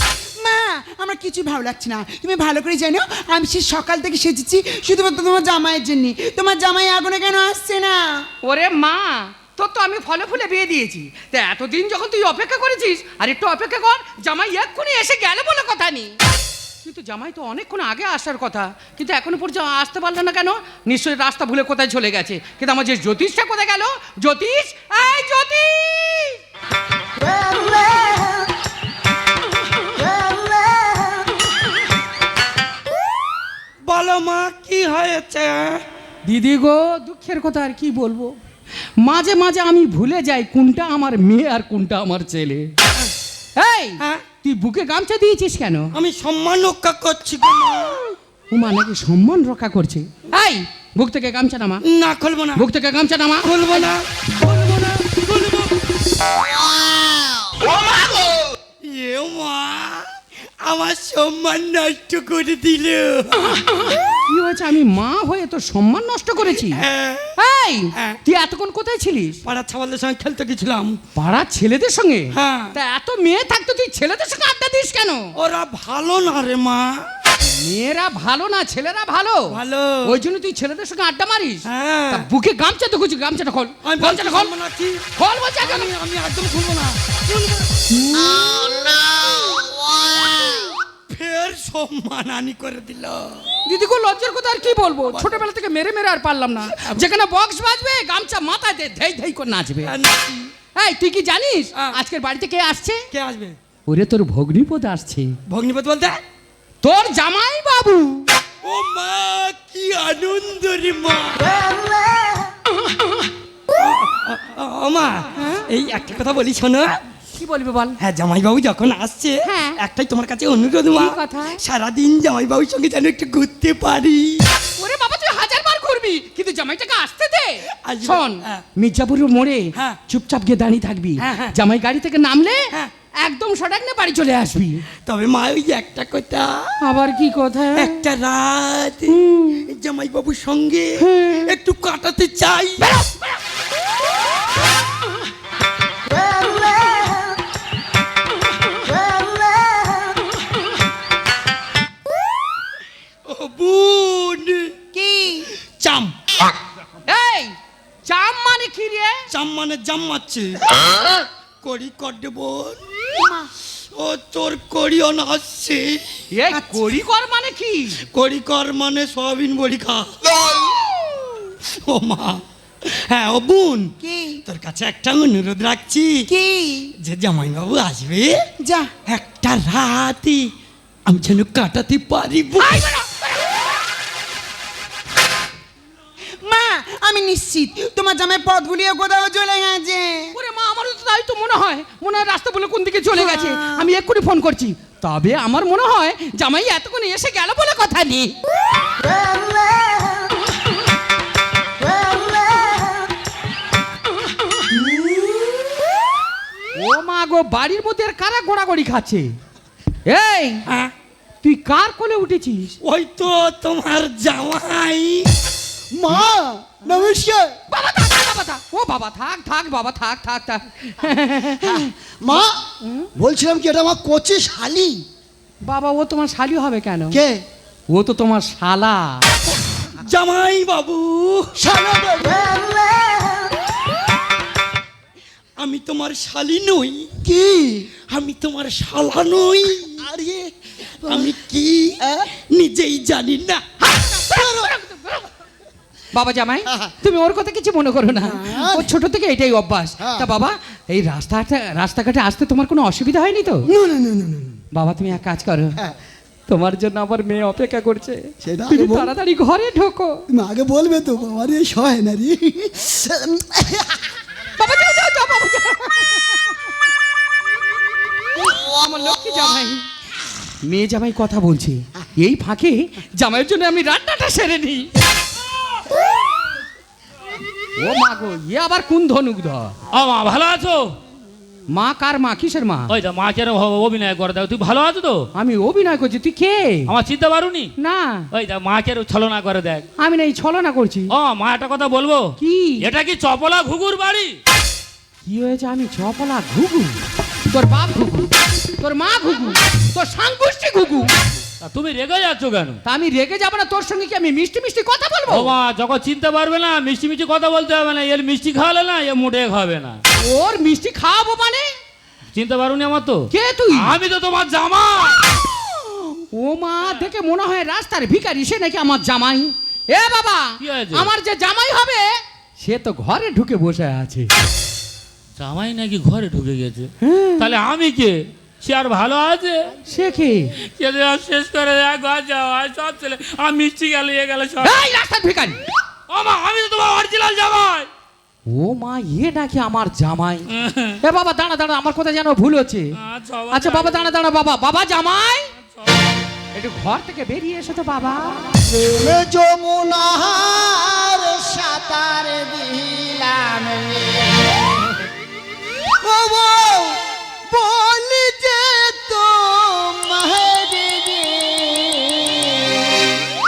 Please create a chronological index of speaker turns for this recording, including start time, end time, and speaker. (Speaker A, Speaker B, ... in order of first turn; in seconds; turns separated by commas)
Speaker A: 0.4-8.3, Speaker B: 8.4-16.2, Speaker B: 16.8-26.4, Speaker C: 33.9-35.8, Speaker B: 36.3-38.3, Speaker B: 39.0-42.7, Speaker B: 43.6-45.9, Speaker C: 46.0-48.0, Speaker B: 48.5-51.8, Speaker C: 51.8-52.7, Speaker B: 52.6-53.9, Speaker C: 53.4-55.8, Speaker C: 57.7-60.1, Speaker C: 60.6-63.8, Speaker B: 64.3-66.8, Speaker C: 66.5-67.3, Speaker B: 67.4-69.4, Speaker C: 69.5-71.0, Speaker B: 71.2-75.3, Speaker C: 72.3-72.7, Speaker C: 75.4-77.0, Speaker B: 77.6-84.5, Speaker C: 79.5-80.2, Speaker C: 81.7-82.3, Speaker C: 83.8-85.0, Speaker B: 85.2-85.9, Speaker C: 85.6-87.7, Speaker B: 87.9-88.5, Speaker D: 88.2-90.6, Speaker C: 91.1-93.5, Speaker B: 93.7-99.9, Speaker C: 95.1-95.4, Speaker C: 96.8-97.0, Speaker C: 99.8-100.5, Speaker B: 100.8-103.0, Speaker C: 103.1-103.6, Speaker B: 103.9-105.4, Speaker C: 105.5-106.2, Speaker B: 106.8-108.3, Speaker C: 108.6-111.7, Speaker C: 113.7-117.0, Speaker B: 115.4-115.7, Speaker B: 117.3-118.0, Speaker C: 118.0-124.5, Speaker B: 119.4-119.8, Speaker B: 120.9-121.6, Speaker B: 124.8-132.7, Speaker C: 127.8-128.6, Speaker C: 131.2-131.6, Speaker B: 133.2-134.8, Speaker C: 135.1-136.7, Speaker B: 136.8-138.0, Speaker C: 137.8-143.1, Speaker B: 139.1-139.7, Speaker B: 141.0-141.5, Speaker C: 153.3-154.7, Speaker A: 154.9-155.5, Speaker C: 155.8-156.2, Speaker B: 157.1-157.6, Speaker B: 158.1-159.2, Speaker C: 159.3-162.8, Speaker A: 163.2-163.5, Speaker C: 163.9-166.0, Speaker B: 166.3-168.0, Speaker A: 166.5-166.9, Speaker C: 168.1-170.6, Speaker C: 171.7-173.9, Speaker A: 174.0-174.4, Speaker C: 174.5-176.3, Speaker A: 176.3-176.9, Speaker C: 177.0-178.4, Speaker A: 178.6-178.9, Speaker C: 179.1-180.5, Speaker C: 181.1-182.9, Speaker B: 182.6-183.2, Speaker A: 186.4-190.3, Speaker B: 190.3-198.3, Speaker A: 193.1-193.9, Speaker A: 199.0-199.3, Speaker B: 206.8-209.3, Speaker B: 210.1-210.6, Speaker C: 210.7-210.9, Speaker B: 211.4-212.7, Speaker C: 212.8-215.3, Speaker D: 215.9-217.5, Speaker B: 217.7-221.9, Speaker D: 221.6-222.6, Speaker B: 222.8-223.1, Speaker D: 223.2-225.0, Speaker B: 225.7-227.2, Speaker D: 227.1-227.4, Speaker B: 227.9-229.2, Speaker C: 229.9-231.5, Speaker D: 231.6-232.7, Speaker C: 235.6-237.1, Speaker D: 237.2-237.9, Speaker C: 238.1-240.0, Speaker D: 240.0-240.5, Speaker D: 241.0-241.3, Speaker C: 241.0-243.7, Speaker D: 242.0-242.3, Speaker B: 243.9-245.2, Speaker D: 244.3-244.8, Speaker B: 246.1-253.7, Speaker D: 248.2-248.9, Speaker D: 250.0-250.3, Speaker D: 253.7-254.6, Speaker B: 254.8-255.8, Speaker B: 256.5-260.2, Speaker D: 258.4-259.1, Speaker D: 260.3-264.2, Speaker B: 264.6-266.5, Speaker B: 268.4-269.9, Speaker B: 270.6-274.9, Speaker B: 277.8-279.7, Speaker E: 279.9-281.0, Speaker B: 281.7-282.9, Speaker E: 282.9-285.3, Speaker B: 285.4-286.9, Speaker E: 286.9-287.7, Speaker B: 287.8-288.3, Speaker E: 288.3-289.9, Speaker B: 290.0-291.1, Speaker E: 291.1-294.4, Speaker B: 292.4-292.8, Speaker B: 295.2-301.1, Speaker E: 301.6-302.8, Speaker B: 302.9-305.5, Speaker E: 305.3-310.0, Speaker B: 310.2-311.7, Speaker E: 312.3-315.3, Speaker B: 313.3-313.9, Speaker B: 316.3-324.3, Speaker E: 320.6-321.1, Speaker E: 325.4-329.7, Speaker B: 327.0-327.5, Speaker B: 329.9-330.5, Speaker E: 330.8-334.8, Speaker B: 334.6-335.6, Speaker E: 336.1-337.9, Speaker B: 338.5-340.5, Speaker E: 340.5-341.0, Speaker B: 341.0-342.9, Speaker E: 343.0-344.1, Speaker B: 343.5-345.5, Speaker E: 345.7-346.0, Speaker B: 346.6-348.5, Speaker D: 348.7-354.9, Speaker D: 356.0-363.2